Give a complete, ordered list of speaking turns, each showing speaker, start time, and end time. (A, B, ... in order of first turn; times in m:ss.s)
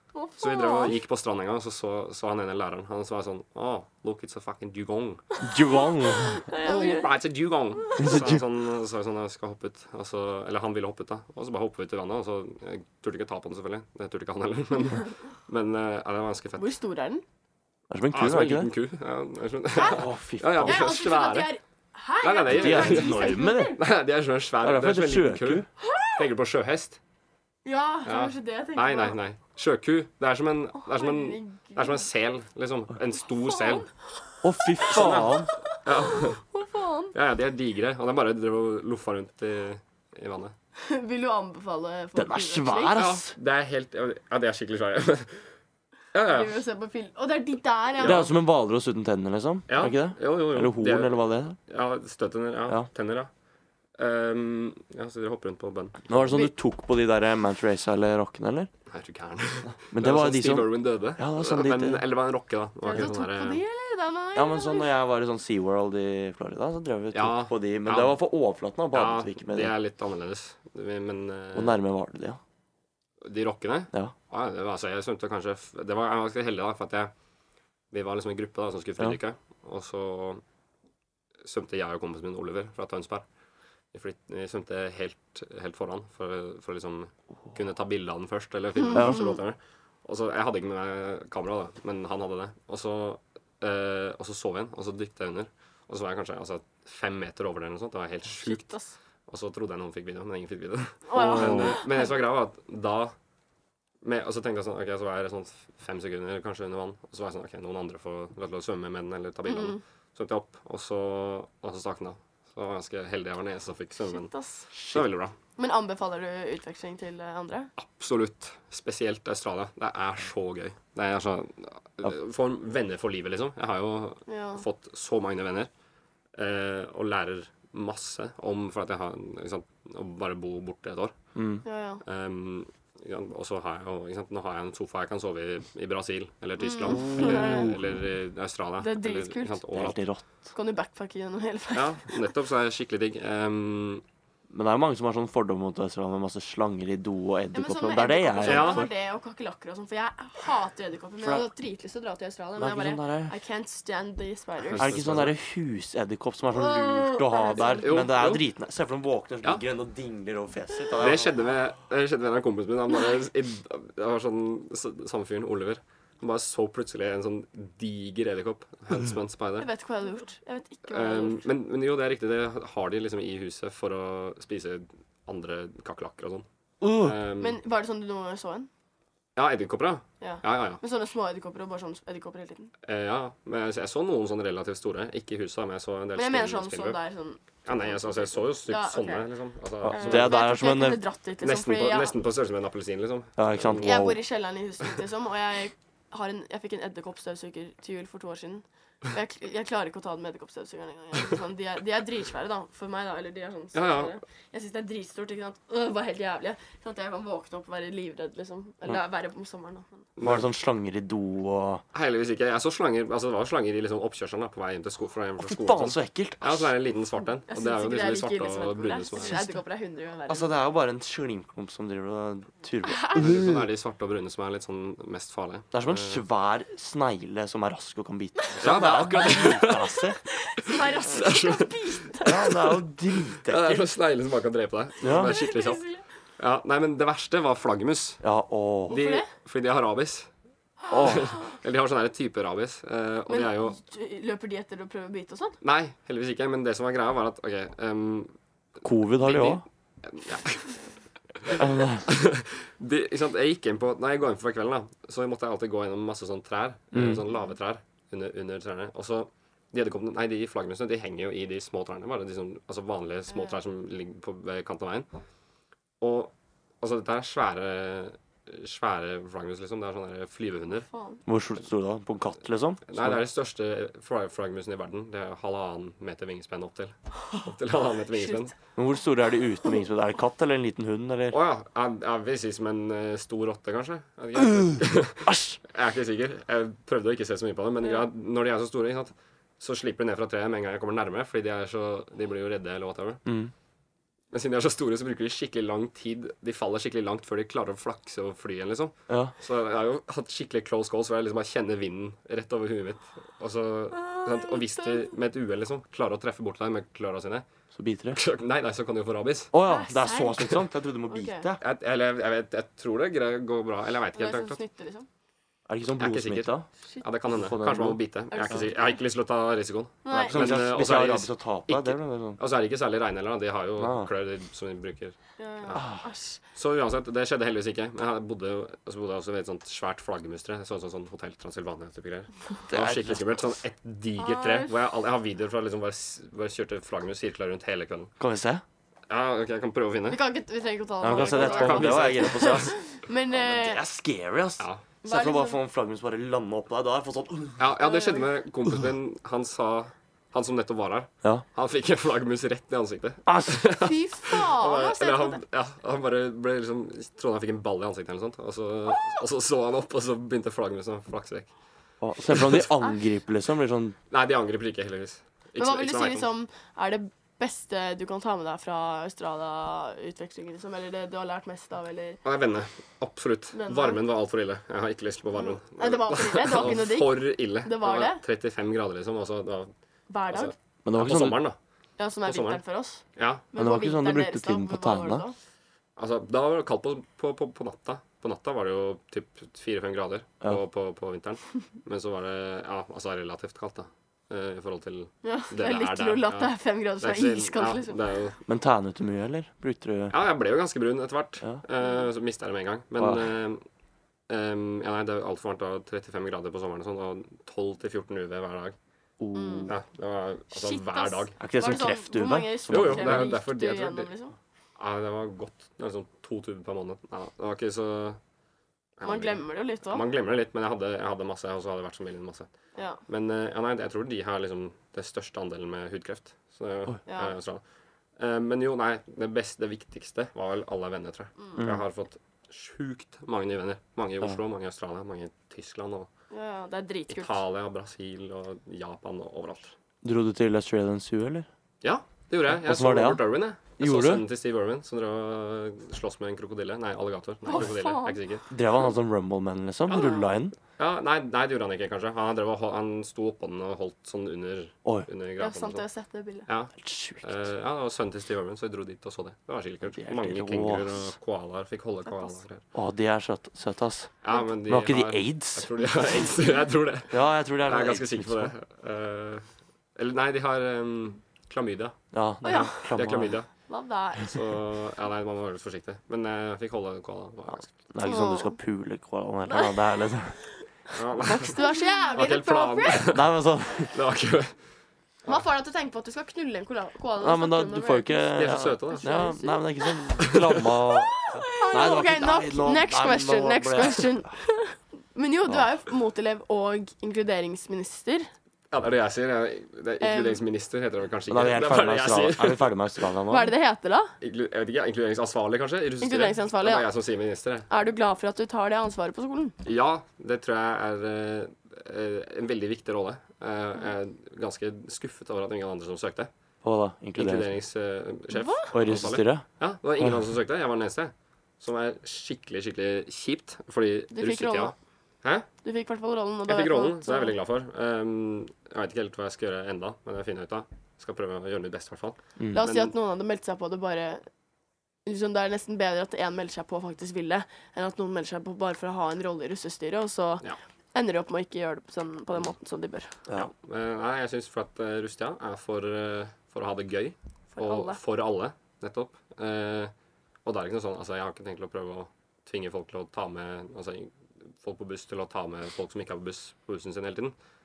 0:00.1-0:01.0 A
0:00.4-0:05.2 B
0:05.4-0:07.2 A
0:05.4-0:06.4 C
0:06.6-0:16.7 B
0:08.0-0:08.4 C
0:16.6-0:17.2 A
0:17.9-0:18.7 C
0:18.1-0:21.5 B
0:19.8-0:20.0 A
0:19.9-0:20.9 C
0:20.6-0:23.8 A
0:22.2-0:27.0 B
0:22.5-0:23.8 C
0:24.6-0:25.7 C
0:25.8-0:26.2 A
0:27.6-0:29.2 A
0:28.1-0:33.9 B
0:30.8-0:32.0 A
0:34.4-0:35.5 C
0:34.7-0:37.2 A
0:34.9-0:36.4 B
0:37.1-0:40.5 B
0:40.8-0:43.0 A
0:42.2-0:43.4 C
0:43.0-0:45.5 B
0:46.1-0:46.6 B
0:46.3-0:48.3 A
0:48.0-0:48.3 B
0:48.0-0:51.6 C
0:49.7-0:53.3 B
0:54.0-0:56.2 B
0:56.1-0:58.7 C
0:58.9-1:03.6 B
0:59.9-1:02.0 C
1:02.8-1:04.9 A
1:04.4-1:09.7 C
1:07.1-1:08.2 B
1:08.9-1:11.8 B
1:11.6-1:12.4 C
1:13.2-1:17.1 B
1:17.9-1:20.4 B
1:21.4-1:23.2 B
1:23.9-1:38.7 B
1:28.8-1:29.4 A
1:28.9-1:29.4 C
1:38.4-1:39.0 A
1:39.3-1:43.1 B
1:41.1-1:42.1 A
1:41.2-1:41.8 C
1:44.0-1:55.3 B
1:49.4-1:49.8 A
1:54.0-1:54.7 A
1:54.8-1:55.0 C
1:55.6-1:57.7 A
1:57.8-2:05.7 B
2:04.3-2:04.6 A
2:06.4-2:11.2 B
2:11.4-2:11.6 C
2:11.6-2:12.0 A
2:12.0-2:20.0 B
2:16.6-2:17.7 A
2:16.9-2:17.9 C
2:18.8-2:19.6 A
2:19.7-2:20.5 C
2:20.5-2:22.2 A
2:21.7-2:24.0 B
2:24.5-2:28.9 C
2:27.5-2:35.0 A
2:28.4-2:28.9 B
2:31.2-2:31.5 C
2:32.6-2:33.4 C
2:34.6-2:35.3 B
2:34.8-2:41.3 C
2:36.5-2:37.9 A
2:37.8-2:38.4 B
2:41.0-2:49.7 B
2:49.6-2:51.5 A
2:50.9-2:56.4 B
2:56.8-2:57.2 C
2:57.0-2:57.6 B
2:57.4-2:58.7 A
2:59.4-3:00.8 B
3:00.2-3:02.7 A
3:02.9-3:07.0 B
3:06.2-3:09.3 A
3:07.6-3:10.4 B
3:09.8-3:11.0 C
3:09.9-3:12.2 A
3:11.4-3:14.1 B
3:13.4-3:14.2 C
3:13.8-3:30.1 A
3:23.7-3:24.2 B
3:30.2-3:30.5 B
3:30.2-3:31.8 C
3:31.9-3:39.4 B
3:35.4-3:36.7 C
3:37.5-3:40.5 A
3:39.2-3:39.6 C
3:40.3-3:43.7 C
3:42.9-3:43.2 A
3:43.1-3:46.2 B
3:45.7-3:50.2 C
3:48.6-3:49.9 B
3:50.3-3:52.8 A
3:51.1-3:51.8 B
3:52.2-3:53.8 C
3:53.5-3:55.8 B
3:55.0-3:55.4 C
3:55.1-3:56.0 A
3:56.4-3:58.2 B
3:58.2-3:59.0 C
3:58.9-3:59.3 A
3:58.9-4:00.3 B
4:00.9-4:01.3 C
4:01.0-4:03.8 B
4:03.3-4:05.6 A
4:05.6-4:08.3 B
4:08.8-4:09.6 C
4:09.2-4:10.8 B
4:11.4-4:25.1 B
4:11.5-4:12.1 C
4:16.9-4:17.2 C
4:26.0-4:30.9 B
4:30.8-4:31.2 A
4:31.3-4:33.2 C
4:32.9-4:38.5 B
4:38.1-4:38.5 A
4:38.8-4:41.4 C
4:41.3-4:53.2 B
4:44.5-4:45.6 C
4:53.3-4:53.5 C
4:54.3-5:07.5 B
4:59.1-4:59.3 C
5:04.0-5:05.1 A
5:07.7-5:08.2 C
5:08.1-5:09.5 B
5:09.5-5:11.6 C
5:09.6-5:10.6 A
5:11.1-5:11.4 A
5:11.6-5:14.6 B
5:14.2-5:15.1 A
5:15.7-5:16.7 C
5:16.0-5:25.9 B
5:17.3-5:18.0 C
5:18.3-5:19.0 A
5:20.0-5:20.5 A
5:20.1-5:22.4 C
5:23.8-5:24.1 C
5:25.4-5:26.4 A
5:25.8-5:26.0 C
5:26.5-5:38.1 B
5:32.7-5:33.2 C
5:34.2-5:34.7 A
5:38.2-5:38.6 C
5:39.1-5:40.2 B
5:40.1-5:43.8 A
5:41.0-5:42.8 C
5:41.0-5:42.7 B
5:43.3-5:47.7 C
5:45.0-5:45.6 A
5:47.6-6:01.5 B
5:47.8-5:48.3 A
5:53.3-5:53.7 C
5:53.8-5:55.4 A
6:02.0-6:04.0 C
6:02.3-6:02.6 B
6:04.1-6:06.3 B
6:05.6-6:12.2 A
6:12.2-6:19.7 B
6:13.5-6:14.0 A
6:15.4-6:18.2 A
6:20.1-6:20.5 A
6:20.3-6:21.6 B
6:20.8-6:21.4 C
6:22.0-6:25.4 A
6:22.2-6:22.6 B
6:23.2-6:23.4 B
6:23.6-6:25.2 C
6:26.0-6:38.4 B
6:35.2-6:38.0 A
6:38.5-6:40.2 C
6:40.1-6:43.6 B
6:41.8-6:42.1 A
6:43.0-6:43.3 C
6:44.3-6:48.8 B
6:49.2-6:49.7 C
6:49.4-6:49.7 A
6:49.7-6:51.4 B
6:50.5-6:54.4 A
6:51.4-6:53.3 C
6:52.7-6:54.1 B
6:54.8-6:58.2 B
6:59.0-7:02.5 B
6:59.0-7:00.0 A
7:03.1-7:07.6 B
7:07.1-7:07.4 A
7:08.2-7:16.1 B
7:11.6-7:11.9 C
7:16.3-7:17.4 A
7:17.1-7:19.8 B
7:20.0-7:21.5 C
7:21.8-7:28.4 B
7:22.5-7:23.2 C
7:23.8-7:24.2 C
7:27.4-7:28.2 A
7:28.5-7:30.6 C
7:29.9-7:30.2 B
7:29.9-7:30.2 A
7:30.8-7:35.8 B
7:35.4-7:36.5 A
7:36.5-7:42.6 B
7:36.8-7:37.4 C
7:40.0-7:41.1 C
7:42.1-7:42.4 A
7:42.7-7:45.7 C
7:44.2-7:52.0 B
7:47.1-7:48.5 C
7:52.1-7:53.4 C
7:52.4-7:52.9 A
7:52.9-7:53.5 B
7:53.7-7:54.3 A
7:54.2-7:57.7 B
7:57.5-8:00.4 C
7:58.0-7:58.6 A
7:59.5-7:59.8 A
8:00.9-8:01.6 B
8:01.2-8:03.1 A
8:02.2-8:03.3 B
8:03.0-8:04.0 C
8:03.9-8:04.6 B
8:05.3-8:10.4 A
8:07.2-8:14.4 C
8:08.4-8:09.2 B
8:10.3-8:10.6 B
8:10.9-8:18.3 A
8:18.7-8:22.8 B
8:20.0-8:20.4 A
8:21.3-8:23.5 C
8:23.3-8:24.1 A
8:24.2-8:27.7 B
8:26.0-8:26.9 A
8:27.7-8:29.6 A
8:29.6-8:36.3 B
8:36.6-8:37.5 C
8:37.2-8:45.5 B
8:38.3-8:38.7 A
8:38.7-8:39.4 C
8:44.1-8:44.8 A
8:45.6-8:47.4 A
8:46.5-8:52.9 B
8:52.5-8:54.2 A
8:55.1-9:03.1 A
9:03.3-9:09.9 B
9:07.6-9:08.0 A
9:10.4-9:17.4 B